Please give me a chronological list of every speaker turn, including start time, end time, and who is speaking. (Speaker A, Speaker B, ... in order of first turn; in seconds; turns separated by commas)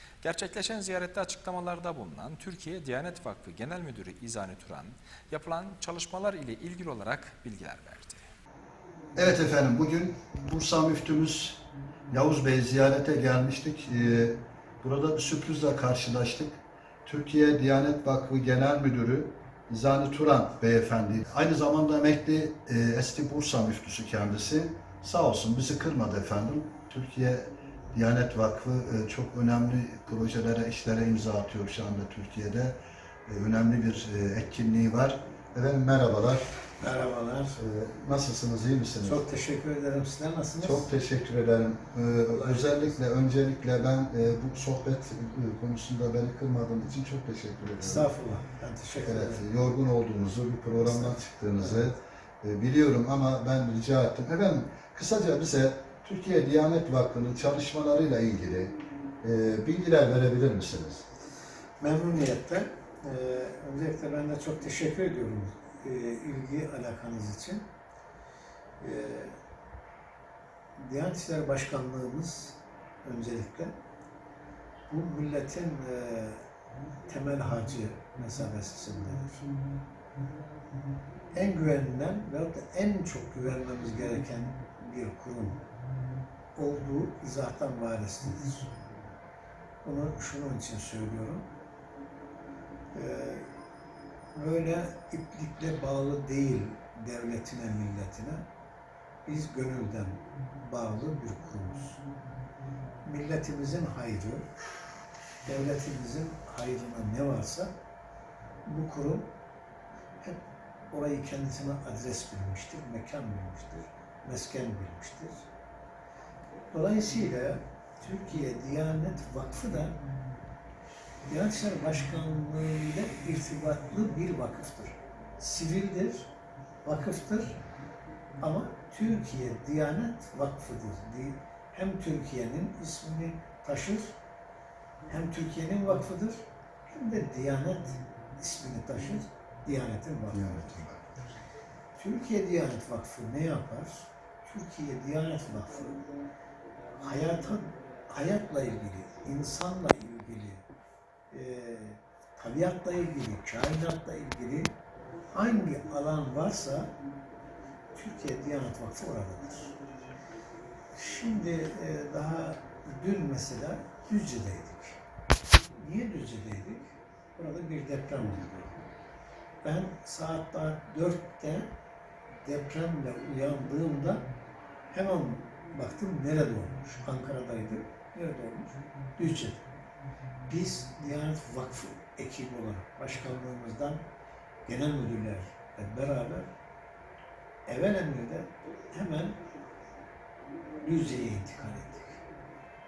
Speaker A: 0.2-8.2, Speaker B: 9.2-36.5, Speaker C: 36.8-37.6, Speaker B: 37.5-39.3, Speaker C: 39.0-40.9, Speaker B: 40.6-48.1, Speaker C: 42.3-43.0, Speaker C: 47.8-49.4, Speaker B: 49.0-61.0, Speaker C: 50.8-51.9, Speaker C: 61.8-67.6, Speaker C: 68.8-69.4, Speaker C: 70.8-73.7, Speaker C: 74.9-76.5, Speaker C: 77.1-79.5, Speaker C: 81.3-85.6, Speaker C: 86.5-88.7, Speaker C: 89.8-91.5, Speaker C: 92.9-93.5, Speaker C: 94.3-98.4, Speaker C: 99.2-102.0, Speaker C: 103.0-104.4, Speaker C: 105.4-107.7, Speaker C: 108.7-109.3, Speaker C: 110.2-115.5, Speaker C: 116.7-120.0, Speaker C: 121.3-126.3, Speaker C: 126.8-127.6, Speaker C: 128.4-134.1, Speaker C: 135.1-140.8, Speaker B: 140.3-141.2, Speaker C: 141.9-146.1, Speaker C: 147.0-150.6, Speaker C: 151.3-154.7, Speaker C: 155.3-156.9, Speaker C: 157.9-159.8, Speaker C: 160.9-165.0, Speaker C: 165.7-168.8, Speaker C: 169.6-171.7, Speaker C: 172.4-174.2, Speaker C: 174.9-179.7, Speaker C: 180.5-184.0, Speaker C: 184.6-186.5, Speaker C: 187.7-189.4, Speaker C: 190.8-192.2